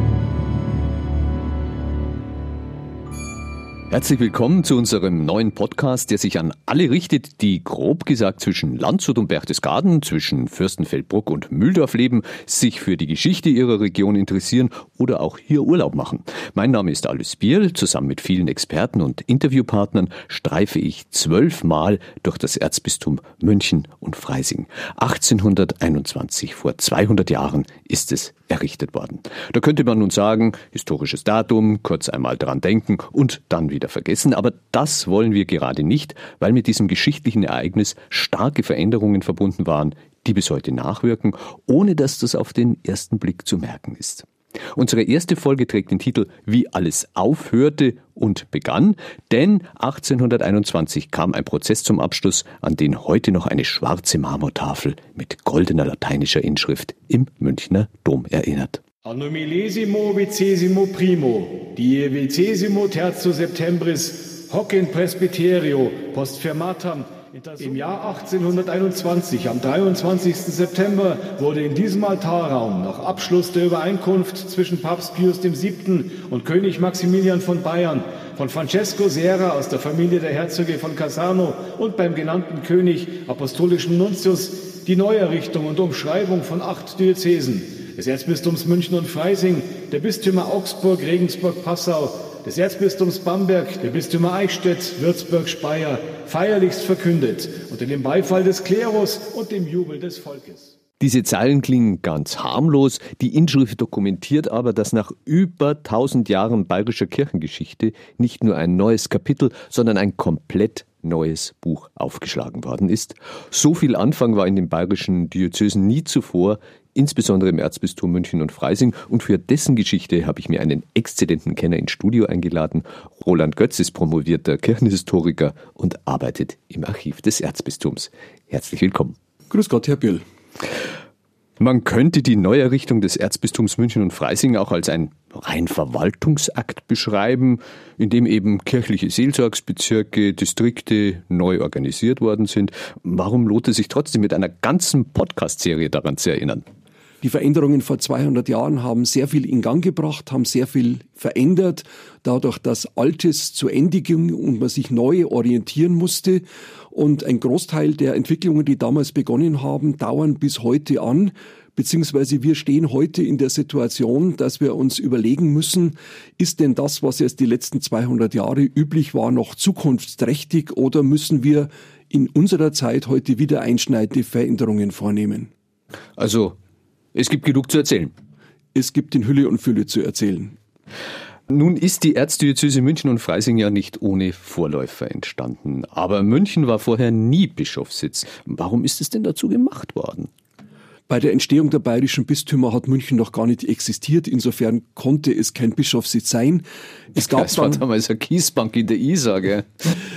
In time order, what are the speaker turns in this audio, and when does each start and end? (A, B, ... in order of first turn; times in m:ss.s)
0:03.9-0:58.8 A
0:59.0-1:40.7 B
1:41.0-2:09.2 A
2:09.5-2:10.2 C
2:11.6-2:26.6 A
2:27.2-2:55.5 C
2:56.2-2:56.6 A
2:57.1-2:58.1 A
2:58.7-3:00.6 C
3:01.5-3:10.3 A
3:11.1-3:17.8 C
3:17.2-3:19.9 A